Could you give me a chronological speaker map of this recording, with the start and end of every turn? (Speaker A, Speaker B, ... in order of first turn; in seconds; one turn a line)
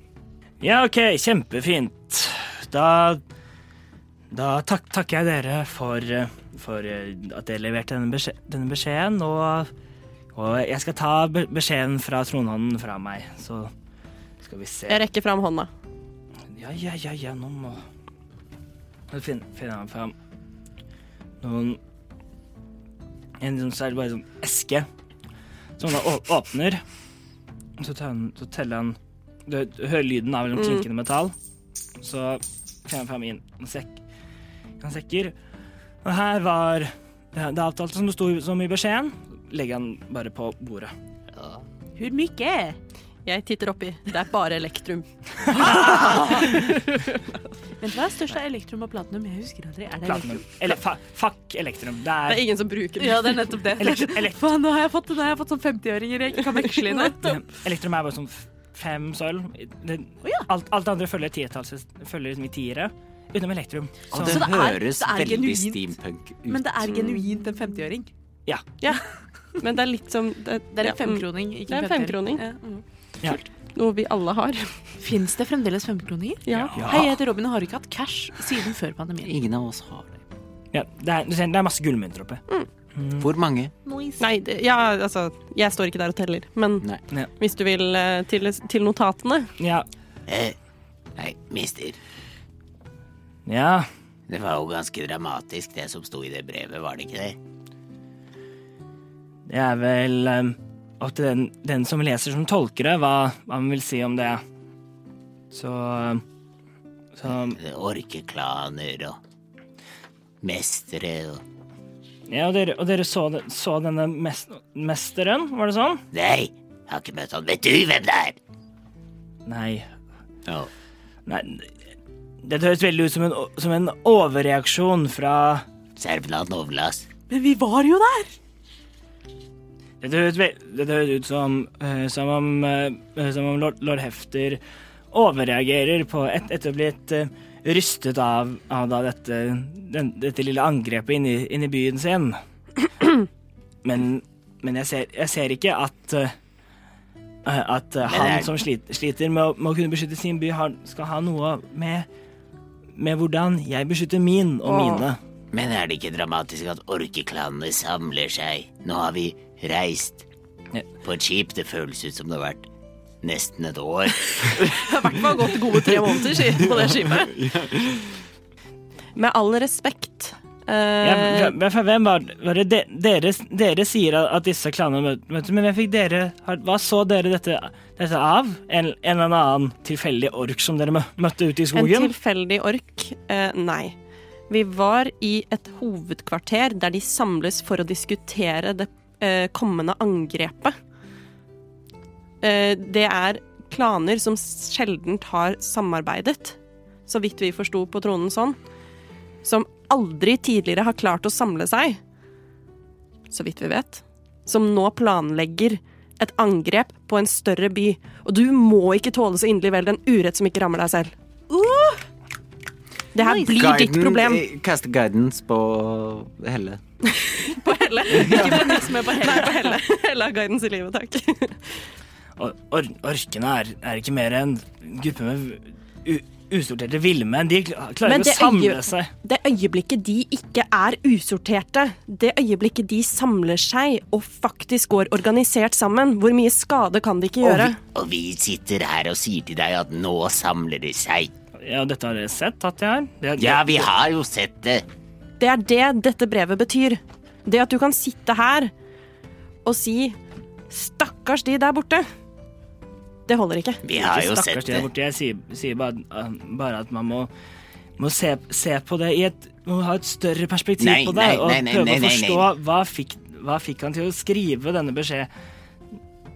Speaker A: 0.6-3.2
Speaker A: 4.3-9.7
Speaker A: 10.3-13.7
Speaker A: 14.4-15.0
Speaker B: 14.9-15.7
Speaker A: 16.5-17.8
Speaker A: 19.1-20.1
Speaker A: 21.4-21.8
Speaker A: 23.4-24.9
Speaker A: 25.8-26.8
Speaker A: 27.8-31.3
Speaker B: 30.6-30.9
Speaker A: 32.0-34.0
Speaker A: 34.8-35.3
Speaker A: 36.0-40.9
Speaker C: 41.3-41.6
Speaker D: 42.0-42.8
Speaker B: 43.2-47.0
Speaker A: 45.5-46.7
Speaker D: 45.9-46.6
Speaker D: 47.8-50.5
Speaker A: 50.0-52.4
Speaker B: 52.3-53.6
Speaker D: 53.0-57.4
Speaker A: 53.8-54.4
Speaker B: 56.6-57.1
Speaker A: 57.2-64.5
Speaker E: 64.1-66.7
Speaker D: 64.2-65.9
Speaker D: 66.5-68.1
Speaker B: 66.9-67.2
Speaker B: 69.6-72.4
Speaker D: 70.7-72.8
Speaker B: 73.7-74.7
Speaker D: 75.0-79.3
Speaker B: 76.5-76.9
Speaker A: 76.7-77.1
Speaker E: 79.2-80.2
Speaker A: 80.7-82.4
Speaker A: 82.9-83.3
Speaker E: 83.2-83.7
Speaker D: 83.8-84.2
Speaker B: 84.2-86.8
Speaker B: 87.4-89.5
Speaker A: 89.6-89.8
Speaker C: 90.3-90.5
Speaker C: 91.2-92.0
Speaker A: 93.5-93.9
Speaker C: 94.3-97.4
Speaker A: 99.5-104.4
Speaker A: 105.5-106.2
Speaker A: 107.2-107.6
Speaker C: 107.5-109.2
Speaker C: 110.4-111.4
Speaker A: 112.3-116.0
Speaker C: 116.1-118.4
Speaker A: 119.5-119.9
Speaker A: 121.2-121.7
Speaker A: 122.4-125.6
Speaker C: 126.0-127.1
Speaker D: 127.3-128.3
Speaker A: 130.0-142.4
Speaker A: 143.8-146.3
Speaker A: 147.4-152.1
Speaker C: 148.1-148.5
Speaker A: 153.0-155.2
Speaker B: 154.7-155.0
Speaker C: 155.5-160.2
Speaker C: 161.0-162.7
Speaker C: 163.2-164.6
Speaker B: 164.8-167.3
Speaker E: 166.6-168.2
Speaker B: 169.2-171.5
Speaker A: 171.0-182.1
Speaker B: 181.7-183.9
Speaker B: 184.5-190.7
Speaker B: 192.4-198.6
Speaker B: 199.4-202.0
Speaker B: 203.3-211.1
Speaker D: 211.5-212.0
Speaker B: 213.1-214.4
Speaker D: 213.2-213.4
Speaker E: 213.4-216.8
Speaker B: 217.1-221.7
Speaker D: 218.0-219.8
Speaker A: 222.4-229.1
Speaker B: 228.0-237.8
Speaker C: 237.4-241.3
Speaker A: 241.6-243.9
Speaker C: 243.4-244.8
Speaker B: 245.4-248.7
Speaker B: 249.6-250.2
Speaker B: 250.7-252.1
Speaker B: 253.3-253.8
Speaker C: 253.8-254.9
Speaker A: 253.9-257.3
Speaker A: 258.0-265.3
Speaker C: 260.8-262.5